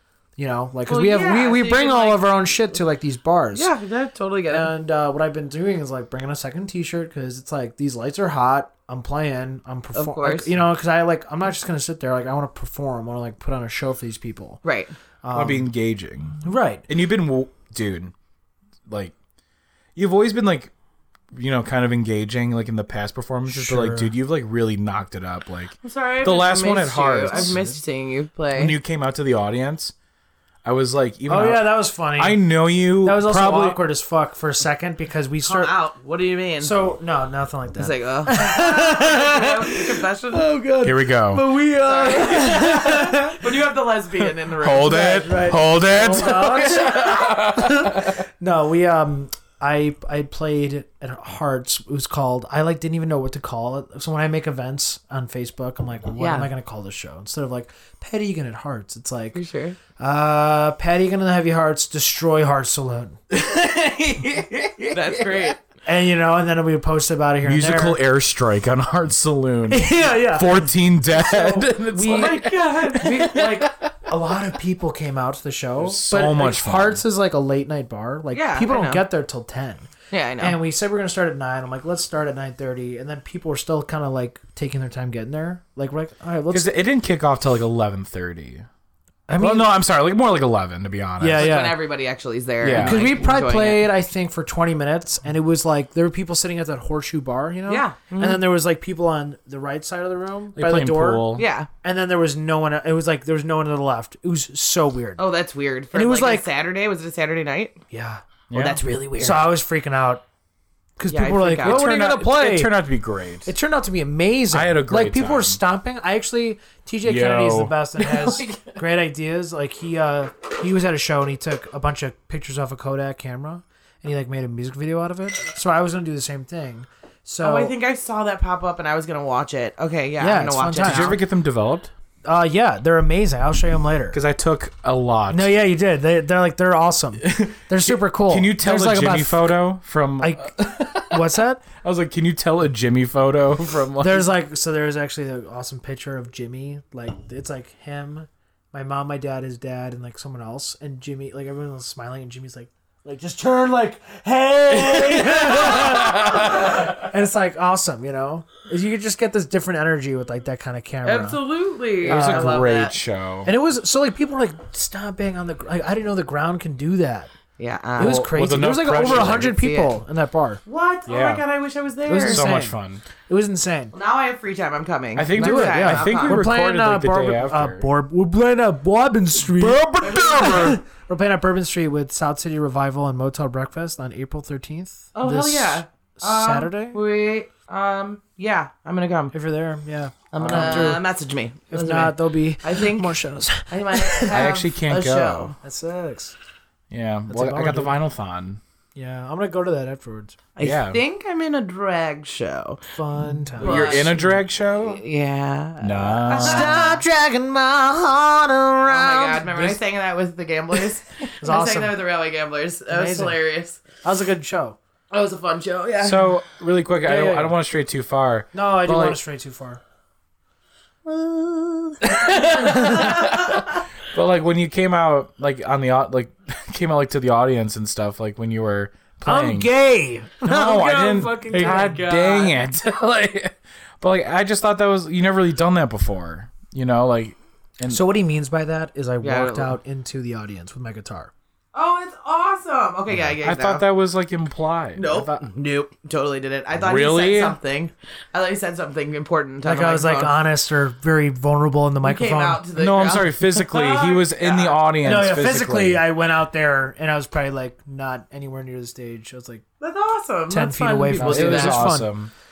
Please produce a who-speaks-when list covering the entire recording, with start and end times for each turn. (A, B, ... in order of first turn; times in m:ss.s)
0:00.4-0:03.7 A
0:00.9-0:02.7 B
0:03.5-0:04.7 B
0:04.5-0:14.6 A
0:09.9-0:10.5 B
0:14.6-0:14.9 B
0:15.2-0:15.7 A
0:15.3-0:18.1 C
0:16.4-0:16.9 A
0:18.8-0:19.2 C
0:19.9-0:20.7 C
0:21.3-0:27.7 C
0:23.4-0:24.1 A
0:25.8-0:28.7 B
0:27.3-0:27.8 A
0:28.5-0:29.9 C
0:30.6-0:33.8 C
0:31.3-0:32.4 A
0:33.0-0:35.7 A
0:35.4-0:36.8 B
0:36.6-0:43.5 A
0:37.8-0:40.6 B
0:40.8-0:41.5 C
0:41.8-0:47.0 B
0:44.2-0:48.1 C
0:44.9-0:59.4 A
0:56.2-0:56.5 B
0:59.4-0:59.8 B
1:00.0-1:03.2 A
1:03.3-1:05.5 C
1:04.9-1:05.6 B
1:05.8-1:08.0 A
1:07.4-1:13.9 C
1:09.7-1:26.7 A
1:12.0-1:13.2 B
1:15.8-1:17.0 C
1:18.3-1:19.1 B
1:20.1-1:20.6 B
1:26.5-1:28.7 C
1:29.3-1:29.7 A
1:29.4-1:31.6 C
1:31.2-1:31.8 A
1:31.4-1:33.9 B
1:32.6-1:33.0 C
1:32.7-1:45.2 A
1:37.7-1:38.4 B
1:40.5-1:41.4 C
1:41.3-1:41.7 B
1:45.2-1:47.8 B
1:45.9-1:46.5 A
1:47.9-1:48.2 A
1:48.5-1:48.8 C
1:48.5-1:49.5 B
1:49.2-1:50.2 A
1:51.0-1:52.7 A
1:51.1-1:51.8 B
1:51.6-1:53.5 C
1:53.4-2:07.7 A
1:54.5-1:55.6 C
1:57.0-1:58.7 C
2:07.4-2:11.2 B
2:10.2-2:11.2 A
2:10.8-2:11.9 C
2:12.2-2:14.2 A
2:14.1-2:15.5 C
2:15.3-2:19.6 A
2:17.2-2:24.3 C
2:20.2-2:21.6 A
2:24.0-2:41.4 A
2:34.7-2:36.9 C
2:41.0-2:42.9 B
2:42.0-2:42.7 A
2:42.0-2:43.5 C
2:43.4-2:47.3 A
2:47.6-2:48.2 B
2:48.0-2:50.6 A
2:48.0-2:49.5 C
2:48.9-2:50.0 B
2:50.6-2:52.4 B
2:51.0-2:51.4 C
2:52.0-2:53.9 A
2:52.2-2:53.0 C
2:53.9-2:56.4 B
2:55.1-2:57.8 C
2:55.4-3:07.0 A
2:59.4-3:00.8 C
3:00.0-3:00.7 B
3:05.1-3:09.3 B
3:09.3-3:11.0 A
3:10.3-3:15.5 B
3:10.4-3:11.0 C
3:11.7-3:14.4 A
3:14.3-3:15.5 C
3:15.6-3:16.4 A
3:16.9-3:18.6 C
3:17.3-3:18.0 A
3:19.0-3:20.4 A
3:20.6-3:22.8 B
3:20.6-3:21.0 C
3:22.9-3:24.3 A
3:23.4-3:25.0 C
3:23.6-3:24.2 B
3:24.8-3:27.0 B
3:25.8-3:26.9 C
3:26.4-3:29.8 A
3:28.9-3:33.8 B
3:31.4-3:32.0 A
3:32.9-3:33.4 A
3:34.0-3:34.8 A
3:35.1-3:36.3 B
3:36.0-3:39.2 C
3:37.0-3:37.6 A
3:38.5-3:39.8 A
3:41.1-3:43.3 B
3:42.0-3:49.7 C
3:42.4-3:43.2 A
3:49.2-3:52.1 A
3:50.4-3:58.0 C
3:51.5-3:52.6 B
3:57.9-4:01.3 A
3:59.2-3:59.8 B
4:01.7-4:03.8 B
4:03.1-4:05.4 C
4:05.0-4:10.3 B
4:06.7-4:07.6 C
4:09.6-4:12.6 A
4:12.0-4:14.8 B
4:12.7-4:16.0 C
4:15.0-4:19.6 A
4:19.8-4:22.0 B
4:20.5-4:22.1 A
4:21.2-4:22.3 C